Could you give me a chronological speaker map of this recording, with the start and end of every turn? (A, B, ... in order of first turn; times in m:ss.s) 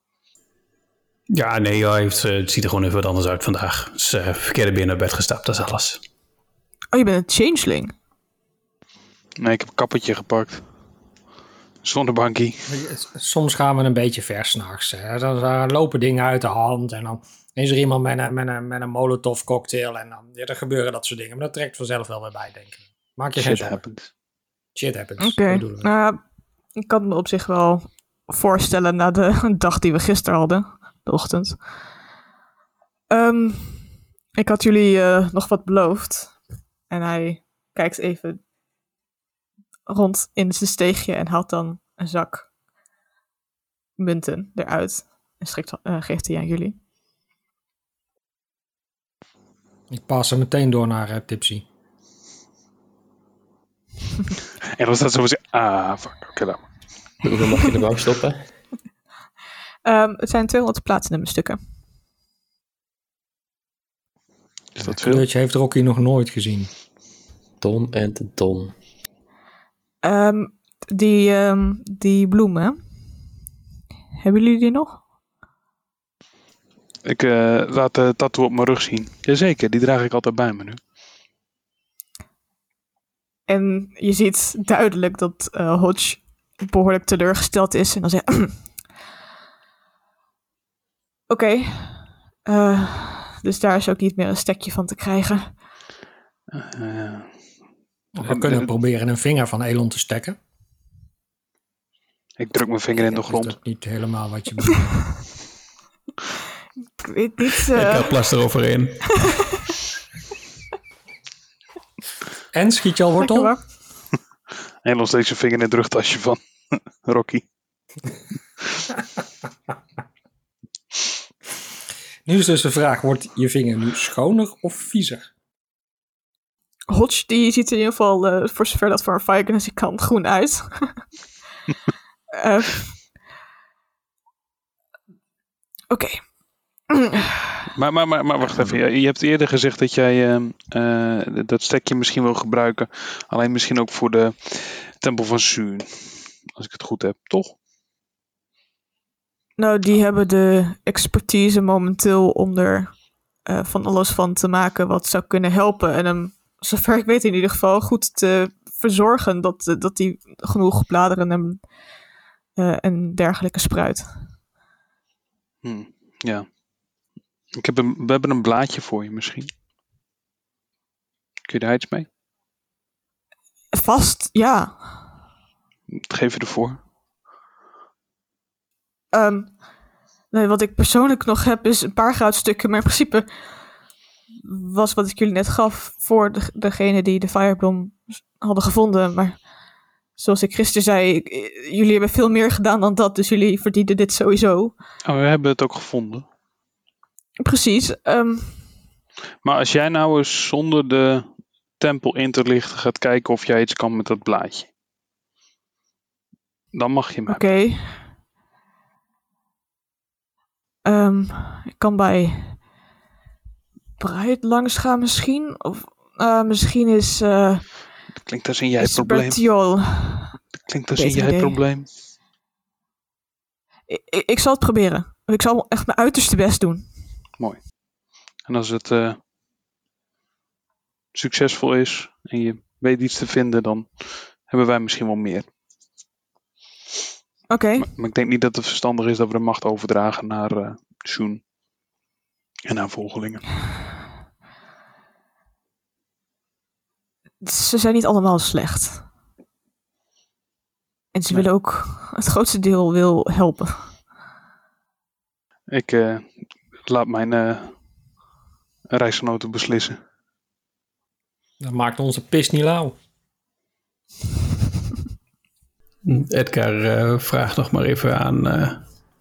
0:01.3-0:06.0 A
0:06.9-0:07.9 B
0:09.4-0:10.6 C
0:11.8-0:12.7 C
0:12.7-0:23.9 D
0:23.3-0:24.1 C
0:24.8-0:26.0 D
0:25.2-0:31.8 B
0:33.1-0:38.4 B
0:39.9-0:42.5 B
0:44.0-0:46.8 B
0:49.9-0:51.7 D
0:54.7-0:56.7 C
0:57.2-0:58.4 E
0:59.9-1:01.6 B
1:04.8-1:05.2 C
1:04.8-1:06.7 D
1:07.6-1:08.7 E
1:10.0-1:12.8 B
1:14.2-1:15.0 B
1:17.0-1:20.8 C
1:23.5-1:28.9 B
1:31.3-1:35.6 B
1:36.5-1:37.4 C
1:38.2-1:40.4 D
1:38.3-1:38.7 C
1:42.4-1:43.6 C
1:43.0-1:45.2 D
1:47.0-1:48.1 B
1:47.8-1:49.3 A
1:49.3-1:49.6 B
1:52.5-1:53.6 D
1:53.2-1:53.7 B
1:54.8-1:57.4 C
2:02.2-2:05.2 D
2:06.9-2:11.1 B
2:12.4-2:13.0 B
2:15.9-2:16.3 B
2:16.9-2:17.6 B
2:17.8-2:27.6 C
2:29.6-2:41.7 B
2:42.6-2:44.3 B
2:45.6-2:46.5 C
2:47.6-2:49.5 C
2:51.5-2:52.1 C
2:53.7-2:55.1 B
2:55.9-2:56.8 C
2:59.1-2:59.7 B
3:00.3-3:03.3 B
3:04.4-3:09.5 B
3:10.2-3:14.8 B
3:15.0-3:16.2 C
3:17.4-3:18.7 B
3:19.4-3:24.7 C
3:26.7-3:27.4 C
3:27.3-3:28.1 B
3:30.8-3:32.7 B
3:34.0-3:37.8 B
3:38.2-3:39.5 C
3:38.8-3:40.4 B
3:40.7-3:41.9 C
3:41.0-3:41.6 B
3:43.9-3:47.0 B
3:47.4-3:47.7 C
3:48.4-3:49.2 C
3:51.1-3:55.5 C
3:57.5-3:57.9 B
3:57.8-4:01.4 C
4:02.7-4:03.5 C
4:07.4-4:09.1 B
4:11.1-4:14.0 B
4:15.7-4:17.8 C
4:18.9-4:20.0 C
4:21.6-4:23.0 D
4:26.0-4:28.8 A